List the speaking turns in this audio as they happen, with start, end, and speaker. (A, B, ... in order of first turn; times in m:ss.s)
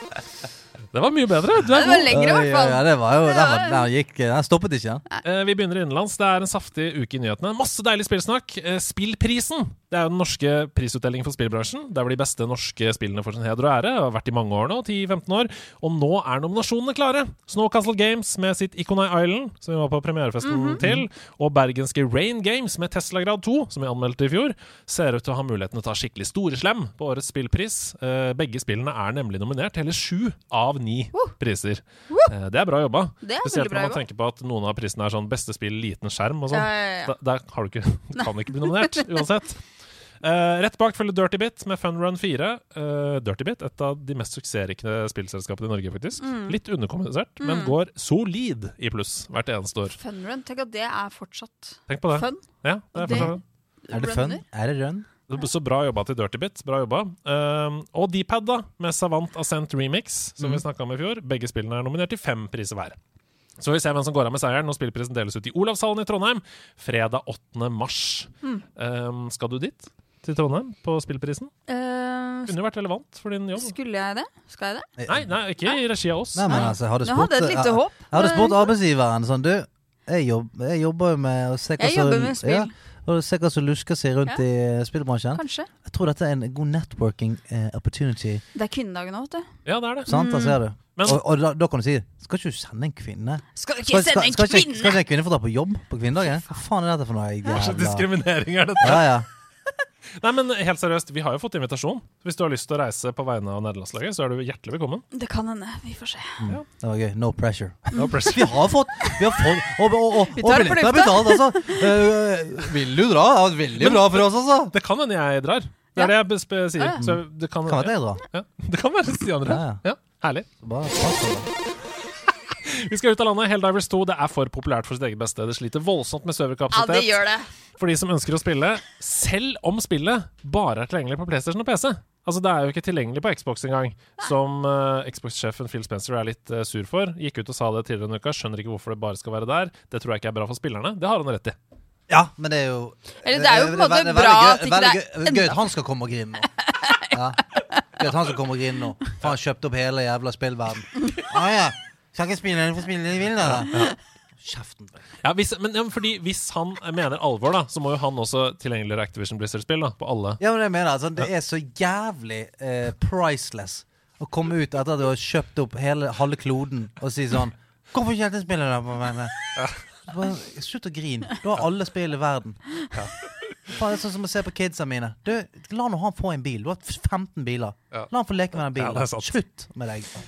0:00.9-0:02.1 A
0:01.7-0:03.8 B
0:02.1-0:05.0 C
0:05.2-0:50.0 A
0:20.4-0:20.8 B
0:20.8-0:21.0 C
0:33.2-0:34.0 B
0:36.5-0:37.1 B
0:38.2-0:39.0 B
0:46.2-0:46.6 B
0:47.4-0:47.7 B
0:50.0-0:52.4 B
0:51.9-0:53.4 A
0:52.9-0:54.4 B
0:53.9-0:55.1 C
0:55.3-1:03.0 A
1:03.6-1:11.5 A
1:11.7-1:12.5 B
1:12.5-1:13.7 A
1:13.5-1:14.9 B
1:15.0-1:15.3 C
1:15.1-1:16.7 A
1:16.3-1:28.4 C
1:16.5-1:18.7 B
1:21.8-1:22.7 B
1:25.3-1:25.7 B
1:28.5-1:29.5 B
1:29.6-1:30.1 A
1:30.0-1:38.1 C
1:30.1-1:30.6 B
1:31.0-1:31.2 A
1:33.6-1:35.0 B
1:37.4-1:39.2 A
1:38.8-1:39.3 C
1:40.2-1:45.0 A
1:45.1-1:46.4 B
1:46.4-1:54.7 C
1:47.9-1:49.2 B
1:48.0-1:48.5 A
1:50.3-1:52.0 B
1:53.8-2:00.5 A
1:57.0-1:58.2 C
1:59.4-1:59.8 C
2:00.6-2:01.5 C
2:02.6-2:07.2 A
2:06.7-2:07.5 B
2:07.8-2:21.6 A
2:22.1-2:26.5 C
2:23.2-2:25.6 B
2:26.6-2:27.8 B
2:27.1-2:27.4 C
2:27.9-2:35.0 C
2:33.5-2:33.9 A
2:35.2-2:40.4 A
2:40.4-2:49.5 C
2:49.5-2:49.9 A
2:50.1-2:52.7 C
2:52.9-2:53.8 A
2:53.7-3:00.1 C
2:57.9-2:59.4 A